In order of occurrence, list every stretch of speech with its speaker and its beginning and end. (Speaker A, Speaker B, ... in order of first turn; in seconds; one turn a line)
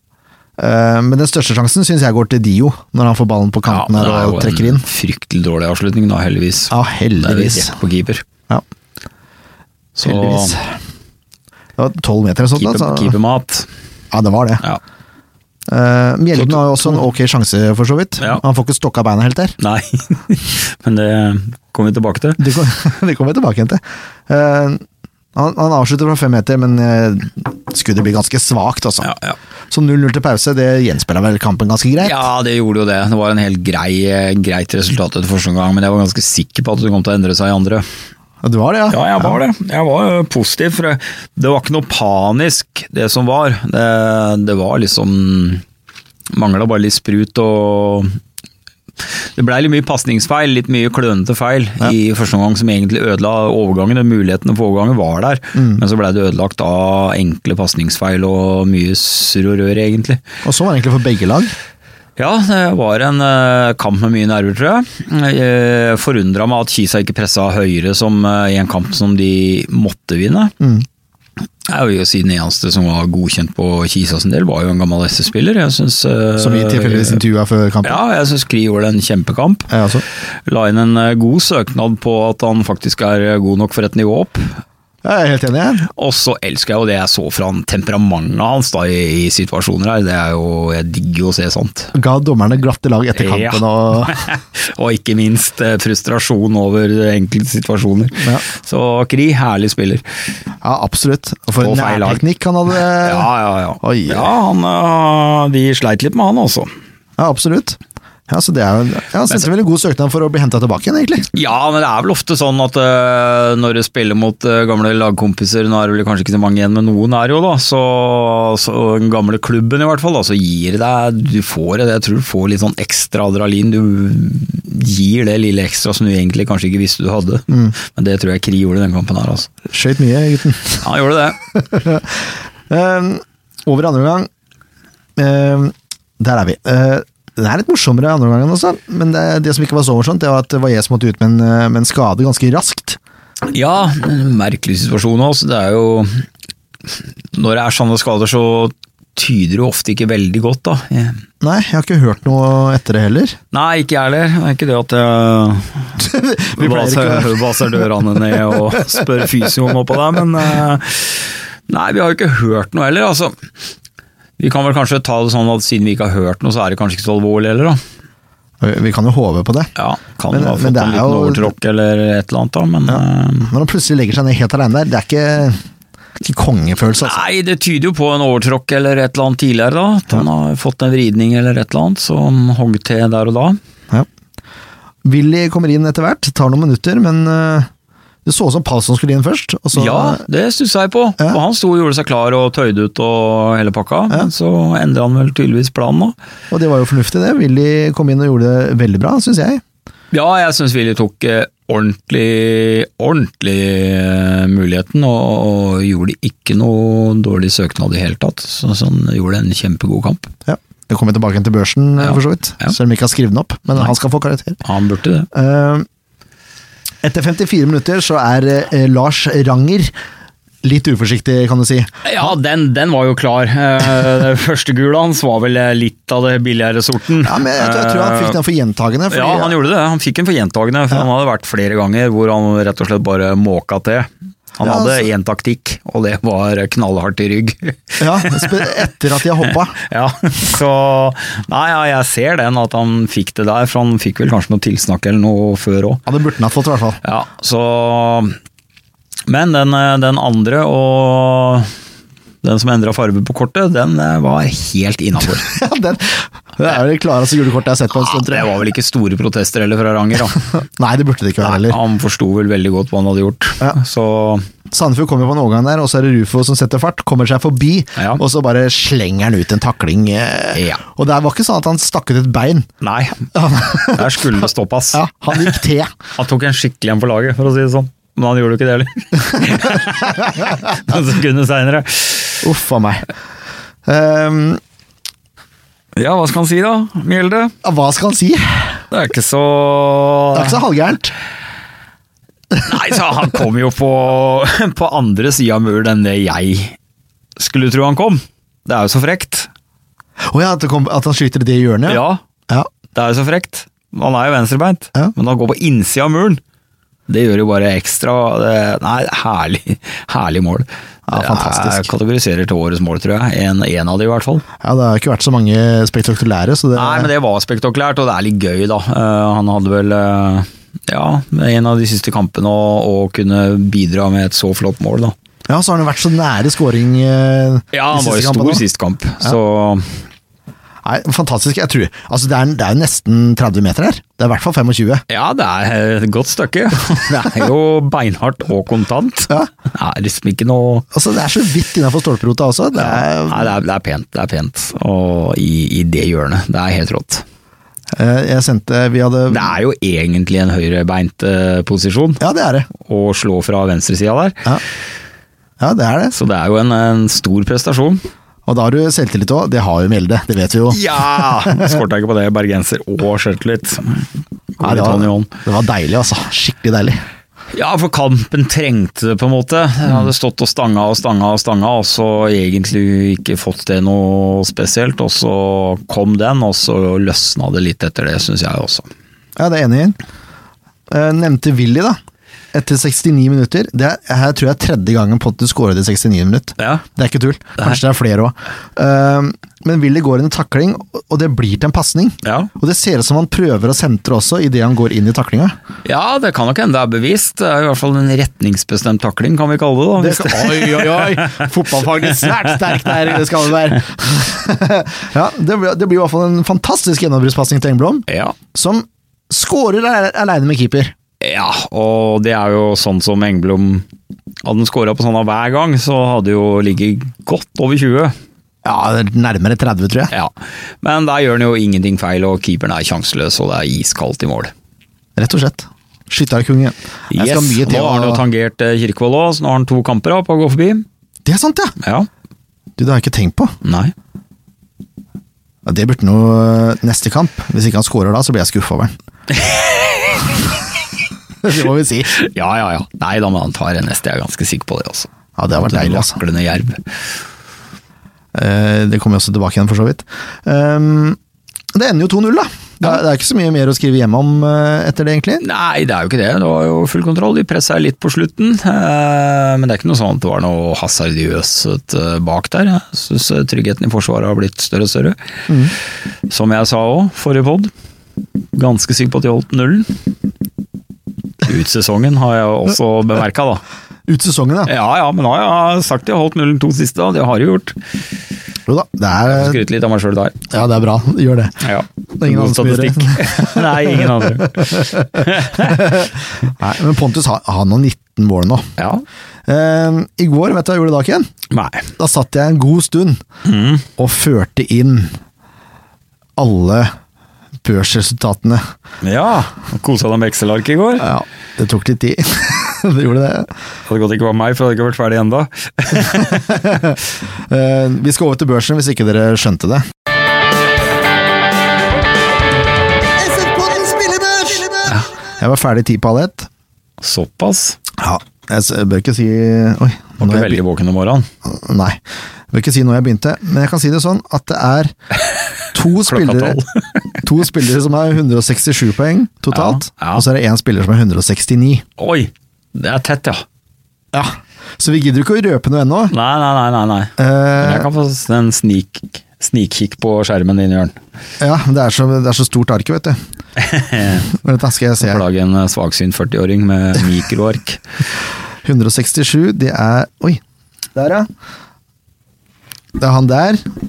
Speaker A: 0.6-4.8
Speaker B: 3.7-8.2
Speaker A: 6.7-7.8
Speaker B: 9.9-10.6
Speaker A: 10.0-10.7
Speaker A: 11.8-13.1
Speaker B: 12.6-13.7
Speaker A: 14.1-14.6
Speaker A: 15.7-19.6
Speaker B: 16.4-17.0
Speaker B: 19.6-22.4
Speaker A: 22.4-24.8
Speaker A: 25.3-29.1
Speaker B: 29.0-29.4
Speaker A: 29.7-32.2
Speaker B: 32.0-37.8
Speaker A: 38.4-39.4
Speaker B: 38.9-45.6
Speaker B: 46.3-48.2
Speaker B: 49.1-60.2
Speaker A: 55.5-55.8
Speaker A: 60.4-61.5
Speaker B: 62.2-70.5
Speaker A: 70.6-70.8
Speaker B: 71.6-77.2
Speaker A: 76.4-78.0
Speaker B: 77.8-79.7
Speaker A: 79.7-80.0
Speaker B: 80.5-84.6
Speaker A: 85.0-85.9
Speaker B: 86.0-91.9
Speaker A: 91.9-94.3
Speaker B: 93.2-100.0
Speaker A: 98.2-98.5
Speaker A: 100.6-104.3
Speaker B: 101.6-106.7
Speaker A: 107.2-111.3
Speaker B: 111.3-129.5
Speaker A: 127.5-127.7
Speaker A: 129.7-130.8
Speaker B: 130.8-131.4
Speaker A: 131.5-134.3
Speaker A: 135.2-143.0
Speaker B: 143.5-146.2
Speaker B: 146.9-151.2
Speaker A: 151.4-153.4
Speaker B: 153.5-155.9
Speaker A: 156.0-159.1
Speaker B: 156.6-163.4
Speaker B: 164.4-167.8
Speaker A: 168.6-169.7
Speaker B: 169.8-173.5
Speaker A: 170.3-171.5
Speaker A: 172.9-175.6
Speaker A: 176.2-177.2
Speaker B: 176.9-183.6
Speaker A: 185.0-187.7
Speaker A: 188.2-190.2
Speaker B: 189.7-196.2
Speaker A: 196.5-199.6
Speaker B: 200.1-210.3
Speaker A: 210.4-214.6
Speaker B: 212.0-212.7
Speaker B: 214.6-215.3
Speaker A: 215.3-215.8
Speaker A: 217.0-219.9
Speaker A: 220.6-222.0
Speaker B: 222.0-228.4
Speaker A: 227.2-229.6
Speaker B: 229.1-238.8
Speaker A: 234.6-235.1
Speaker A: 238.0-239.8
Speaker B: 239.8-246.0
Speaker A: 246.1-247.0
Speaker B: 247.0-248.3
Speaker B: 249.3-251.7
Speaker B: 252.4-255.4
Speaker A: 255.4-258.6
Speaker B: 257.9-260.4
Speaker A: 260.4-261.8
Speaker B: 261.4-264.5
Speaker A: 264.7-272.7
Speaker B: 270.5-270.8
Speaker B: 272.8-275.6
Speaker A: 273.3-274.3
Speaker A: 274.9-275.9
Speaker B: 276.1-282.4
Speaker A: 279.3-280.7
Speaker A: 282.4-283.1
Speaker A: 283.9-284.6
Speaker B: 285.9-287.6
Speaker A: 287.6-288.8
Speaker B: 288.9-290.6
Speaker A: 290.3-291.1
Speaker B: 292.6-296.8
Speaker B: 297.4-299.5
Speaker A: 300.3-302.7
Speaker B: 301.9-302.2
Speaker B: 302.9-306.4
Speaker B: 307.1-314.4
Speaker A: 311.1-311.9
Speaker A: 314.6-317.1
Speaker B: 316.7-325.1
Speaker A: 325.5-328.6
Speaker B: 327.7-330.0
Speaker A: 330.8-335.1
Speaker B: 335.1-340.8
Speaker A: 340.9-343.5
Speaker B: 342.8-347.2
Speaker A: 347.9-349.5
Speaker B: 349.3-352.2
Speaker A: 352.2-352.7
Speaker B: 352.8-354.4
Speaker A: 355.6-356.1
Speaker B: 356.1-358.0
Speaker A: 358.5-361.8
Speaker B: 360.7-365.3
Speaker A: 364.6-367.0
Speaker B: 367.5-378.9
Speaker A: 379.4-380.0
Speaker A: 380.9-382.0
Speaker A: 382.5-395.6
Speaker B: 386.6-386.8
Speaker B: 392.2-392.5
Speaker B: 395.8-403.2
Speaker A: 400.0-410.9
Speaker B: 408.1-408.4
Speaker B: 411.2-413.9
Speaker B: 414.4-418.1
Speaker A: 418.6-420.1
Speaker B: 420.1-424.5
Speaker A: 425.2-428.2
Speaker B: 427.1-430.8
Speaker A: 431.2-431.8
Speaker B: 431.8-432.1
Speaker A: 432.8-433.6
Speaker B: 433.6-433.9
Speaker A: 435.7-438.9
Speaker B: 439.3-440.6
Speaker A: 441.4-442.2
Speaker B: 442.1-446.9
Speaker A: 445.4-446.2
Speaker A: 448.3-451.2
Speaker A: 451.7-455.4
Speaker B: 455.4-465.2
Speaker B: 466.3-467.7
Speaker B: 468.5-469.9
Speaker B: 471.4-473.6
Speaker A: 474.1-474.7
Speaker B: 474.7-477.8
Speaker A: 478.7-479.6
Speaker B: 479.3-480.4
Speaker A: 480.5-481.6
Speaker B: 481.6-486.0
Speaker A: 482.2-488.7
Speaker B: 488.8-489.1
Speaker A: 489.5-491.3
Speaker B: 491.5-491.9
Speaker A: 492.0-493.2
Speaker B: 493.4-493.9
Speaker A: 493.9-495.2
Speaker A: 496.4-496.9
Speaker A: 497.6-498.6
Speaker B: 499.0-501.1
Speaker A: 501.0-503.5
Speaker B: 503.9-506.6
Speaker A: 506.1-509.8
Speaker A: 513.2-516.5
Speaker B: 517.0-517.8
Speaker A: 518.0-520.6
Speaker B: 520.2-521.3
Speaker A: 521.4-522.0
Speaker A: 522.5-524.9
Speaker A: 525.7-526.6
Speaker B: 526.1-527.1
Speaker A: 527.2-531.8
Speaker B: 529.5-530.2
Speaker B: 532.0-533.4
Speaker A: 534.1-536.1
Speaker B: 536.1-541.0
Speaker A: 537.2-537.9
Speaker A: 541.4-543.2
Speaker B: 543.6-544.3
Speaker A: 544.3-545.2
Speaker B: 545.0-547.8
Speaker A: 548.6-550.4
Speaker A: 550.9-551.3
Speaker A: 553.0-553.6